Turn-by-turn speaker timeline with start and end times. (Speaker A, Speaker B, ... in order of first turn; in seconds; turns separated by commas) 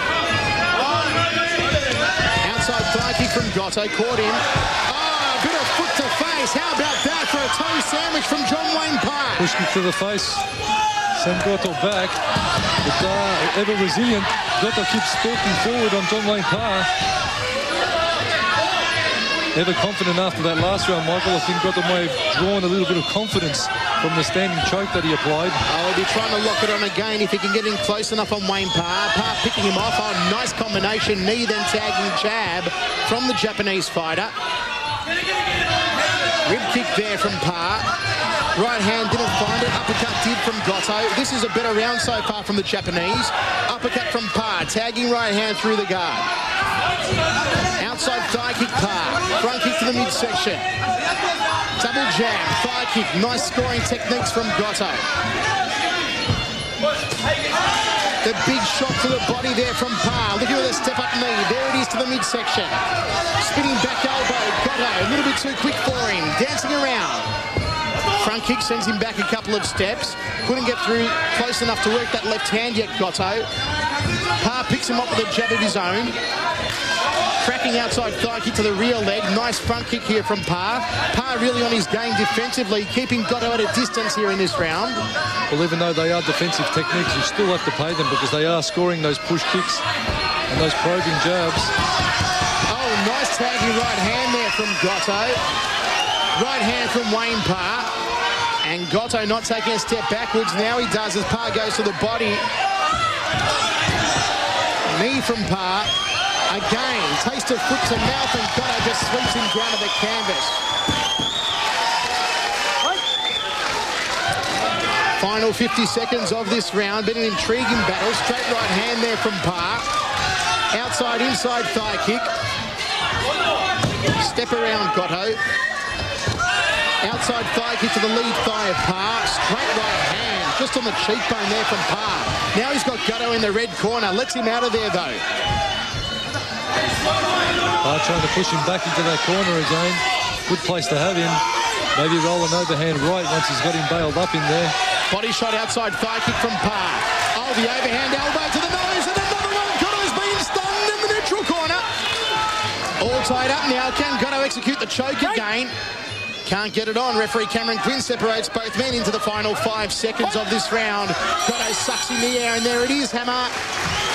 Speaker A: 2.4-9.5, Speaker B: 9.4-10.4, Speaker B: 11.1-12.2, Speaker B: 12.8-16.9, Speaker B: 19.5-25.6, Speaker A: 25.7-34.3, Speaker A: 36.5-37.9, Speaker A: 38.5-46.3, Speaker A: 47.8-50.6, Speaker A: 51.8-55.0, Speaker A: 58.2-62.8, Speaker A: 63.4-67.3, Speaker A: 68.2-73.5, Speaker A: 74.4-76.2, Speaker A: 77.4-85.0, Speaker B: 85.5-89.8, Speaker B: 90.5-91.7, Speaker A: 92.7-95.4, Speaker A: 96.4-97.9, Speaker A: 98.6-102.5, Speaker A: 104.9-105.9, Speaker A: 106.5-110.6, Speaker A: 115.2-119.9, Speaker A: 120.7-122.3, Speaker A: 124.2-125.4, Speaker A: 127.0-135.2, Speaker B: 137.8-141.4, Speaker B: 141.9-144.8, Speaker A: 145.1-151.9, Speaker A: 153.0-155.7, Speaker A: 156.4-163.6